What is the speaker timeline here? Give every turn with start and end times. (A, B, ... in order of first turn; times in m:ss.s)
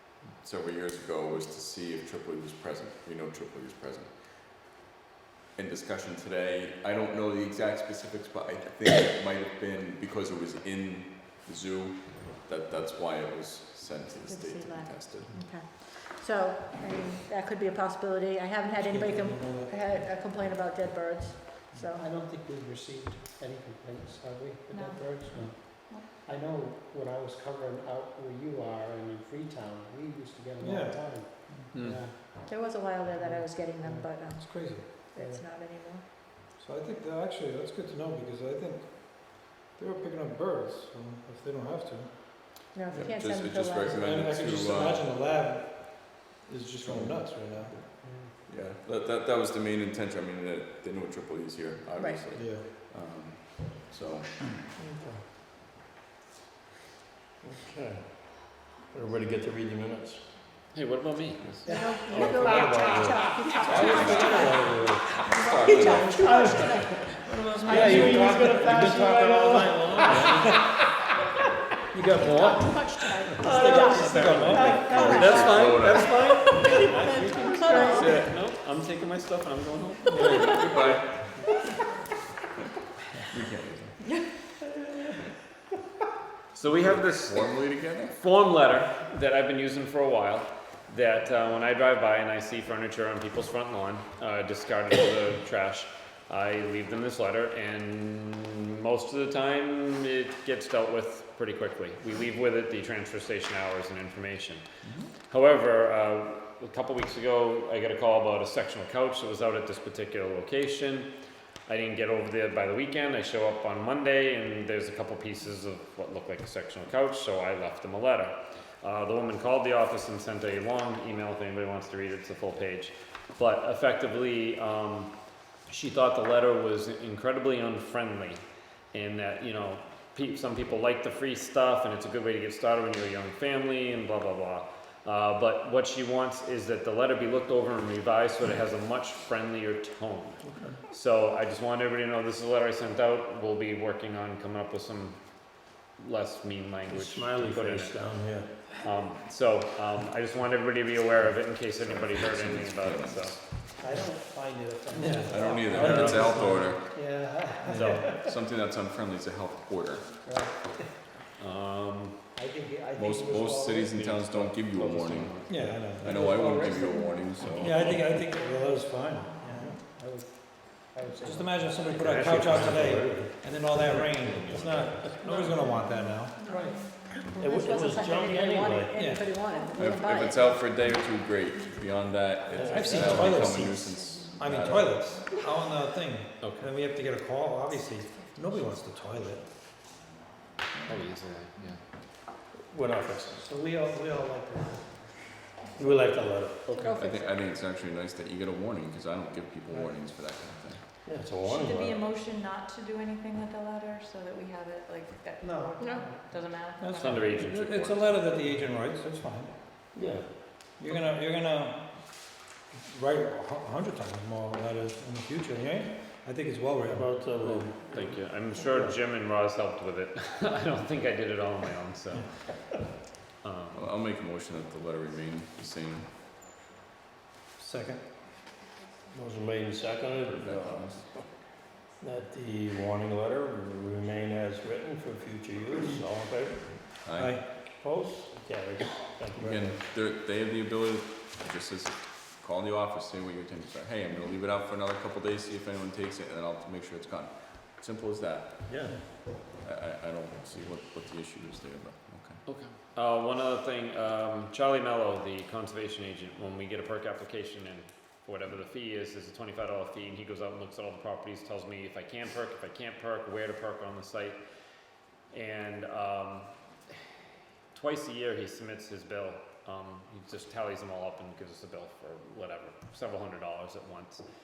0:00.4-0:04.8 A
0:05.6-0:15.3 A
0:14.3-0:22.1 B
0:18.8-0:19.8 C
0:22.0-0:32.5 D
0:24.7-0:26.1 E
0:30.6-0:31.7 C
0:31.7-0:32.0 F
0:32.5-0:36.0 B
0:33.1-0:34.1 D
0:34.3-0:34.8 C
0:35.2-0:35.4 D
0:36.6-0:43.1 C
0:42.7-0:44.2 B
0:42.9-0:45.1 A
0:43.9-0:47.8 C
0:46.8-0:47.9 A
0:47.9-0:48.4 D
0:48.4-0:54.5 A
0:52.4-0:52.7 C
0:54.8-0:55.3 G
0:57.4-1:00.3 G
1:00.7-1:02.3 F
1:01.6-1:02.6 D
1:01.7-1:08.4 B
1:02.1-1:05.1 G
1:03.2-1:03.6 D
1:03.7-1:04.4 A
1:03.9-1:04.5 C
1:05.2-1:06.4 A
1:05.8-1:06.3 E
1:06.0-1:06.6 G
1:06.3-1:10.5 D
1:07.2-1:08.7 E
1:07.6-1:10.5 G
1:10.3-1:10.8 C
1:11.9-1:12.8 C
1:12.1-1:18.3 B
1:13.3-1:15.1 C
1:13.4-1:15.2 E
1:14.9-1:16.0 A
1:15.0-1:20.8 F
1:17.1-1:18.1 E
1:17.9-1:18.3 A
1:20.1-1:20.5 C
1:20.3-1:21.3 A
1:23.3-1:24.0 A
1:26.5-1:27.6 F
1:26.8-1:28.2 A
1:28.2-1:44.6 F
1:44.8-1:45.1 A
1:45.3-1:51.1 F
1:51.7-2:05.1 F
2:05.7-2:25.2 F
2:20.4-2:20.8 G
2:26.0-2:28.0 F
2:26.9-2:28.7 G
2:28.7-2:33.4 F
2:31.8-2:33.6 A
2:33.8-2:38.4 D
2:34.9-2:36.8 G
2:35.3-2:36.8 A
2:37.7-2:38.1 G
2:37.7-2:38.2 F
2:38.3-2:40.1 A
2:40.1-2:41.0 D
2:41.4-2:42.2 F
2:42.4-2:44.6 D
2:42.9-2:48.1 A
2:44.0-2:46.0 F
2:45.5-2:46.5 C
2:45.5-2:47.0 D
2:46.9-2:47.4 E
2:47.5-2:49.8 C
2:48.1-2:49.7 E
2:49.8-2:52.8 D
2:51.2-2:56.4 C
2:51.9-2:53.2 F
2:52.2-2:55.2 G
2:55.4-2:58.1 E
2:56.5-2:56.9 D
2:57.1-2:59.0 G
2:57.4-3:00.5 B
2:59.0-2:59.4 C
2:59.4-2:59.9 E
2:59.8-3:05.0 A
3:00.4-3:05.7 E
3:02.6-3:03.2 G
3:02.6-3:09.4 C
3:06.4-3:06.7 F
3:07.7-3:08.9 E
3:10.7-3:11.0 A
3:10.8-3:11.8 F
3:12.5-3:13.5 G
3:13.4-3:16.0 D
3:15.8-3:16.6 G
3:16.7-3:16.9 D
3:16.7-3:17.3 B
3:17.0-3:20.9 A
3:21.0-3:22.1 G
3:21.4-3:27.5 E
3:25.4-3:26.6 D
3:26.8-3:29.9 C
3:27.0-3:28.3 F
3:29.9-3:30.4 G
3:30.8-3:32.3 C
3:32.8-3:37.2 C
3:36.8-3:39.0 G
3:37.4-3:42.6 F
3:43.4-3:43.9 F
3:43.7-3:46.2 A
3:47.6-3:48.0 C
3:49.1-3:51.3 G
3:50.1-3:51.1 A
3:52.0-3:59.9 G
3:57.0-3:57.4 A
3:57.2-3:57.5 C
3:59.4-4:08.8 A
4:08.7-4:09.0 G
4:09.4-4:12.4 A
4:12.5-4:24.4 F
4:25.3-4:26.5 F
4:27.7-4:34.2 F